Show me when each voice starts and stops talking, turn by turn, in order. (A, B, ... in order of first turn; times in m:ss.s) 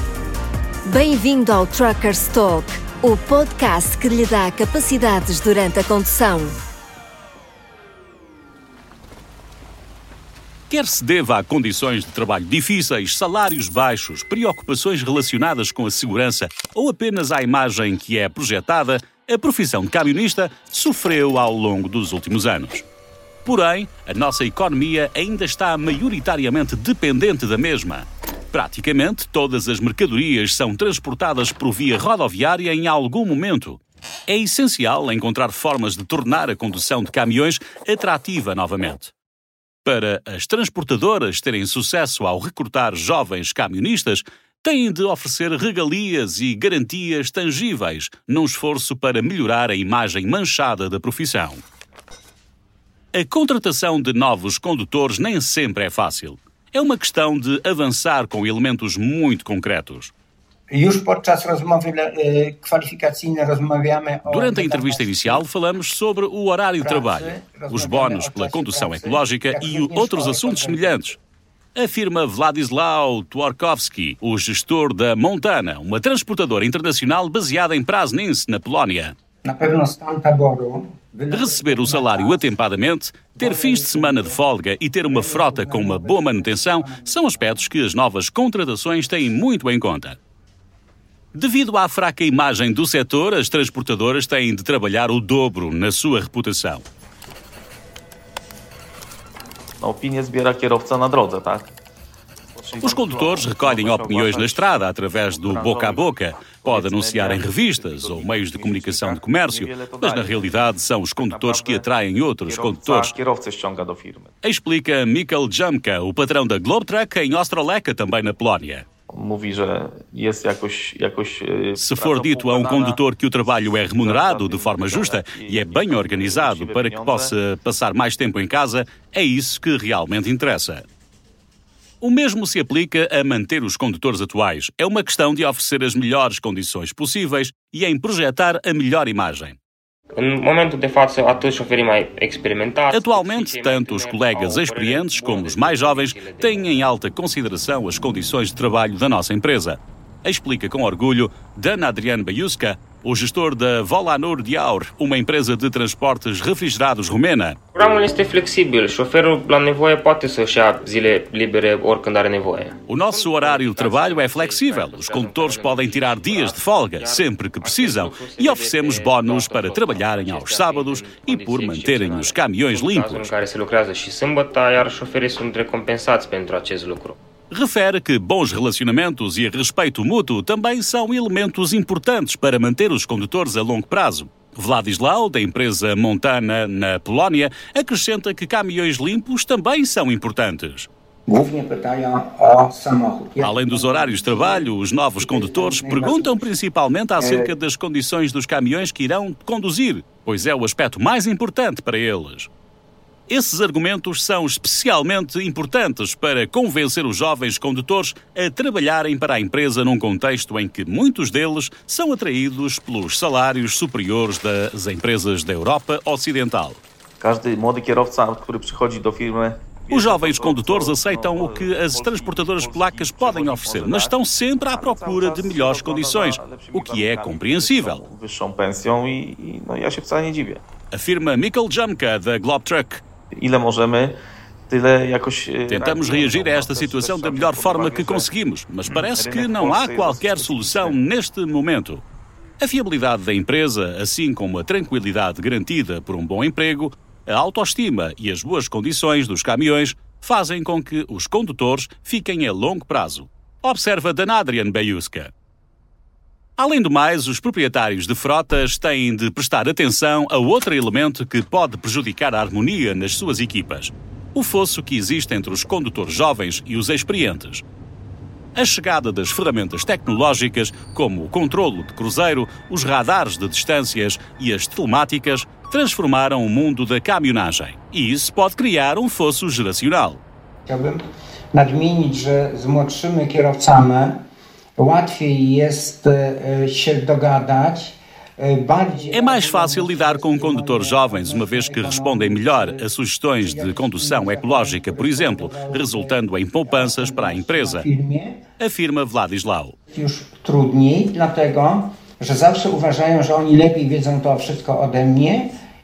0:00.9-0:06.6 A
0:10.7-0:22.9 B
0:23.4-0:39.1 B
0:39.8-0:51.6 B
0:53.1-1:00.1 B
1:00.7-1:05.4 C
1:04.3-1:11.2 B
1:06.8-1:11.0 C
1:11.8-1:19.2 B
1:19.4-1:22.5 C
1:21.3-1:30.2 B
1:23.4-1:24.4 C
1:25.0-1:27.7 C
1:31.3-1:36.8 B
1:39.8-1:41.7 D
1:42.5-1:51.9 D
1:42.8-1:53.2 B
1:52.4-1:54.3 D
1:54.4-1:58.9 B
1:59.1-2:03.0 D
2:01.8-2:10.9 B
2:03.7-2:07.4 D
2:12.0-2:19.6 B
2:20.2-2:26.7 E
2:22.9-2:37.6 B
2:37.8-2:57.2 E
2:42.9-2:53.3 B
2:57.5-3:10.9 B
3:11.3-3:16.4 C
3:13.4-3:22.5 B
3:17.2-3:17.5 C
3:23.3-3:36.8 B
3:37.2-3:44.2 D
3:39.9-3:48.0 B
3:44.7-3:50.6 D
3:50.9-3:53.0 B
3:53.3-3:58.3 D
3:55.7-4:02.0 B
3:58.9-4:01.0 D
4:02.6-4:15.3 B
4:16.6-4:27.6 B
4:28.6-4:40.2 B
4:40.7-4:41.0 C
4:41.5-4:44.2 C
4:44.8-4:52.9 C
4:49.1-4:57.9 B
4:53.4-4:58.4 C
4:58.6-4:59.8 B
4:59.9-5:05.5 C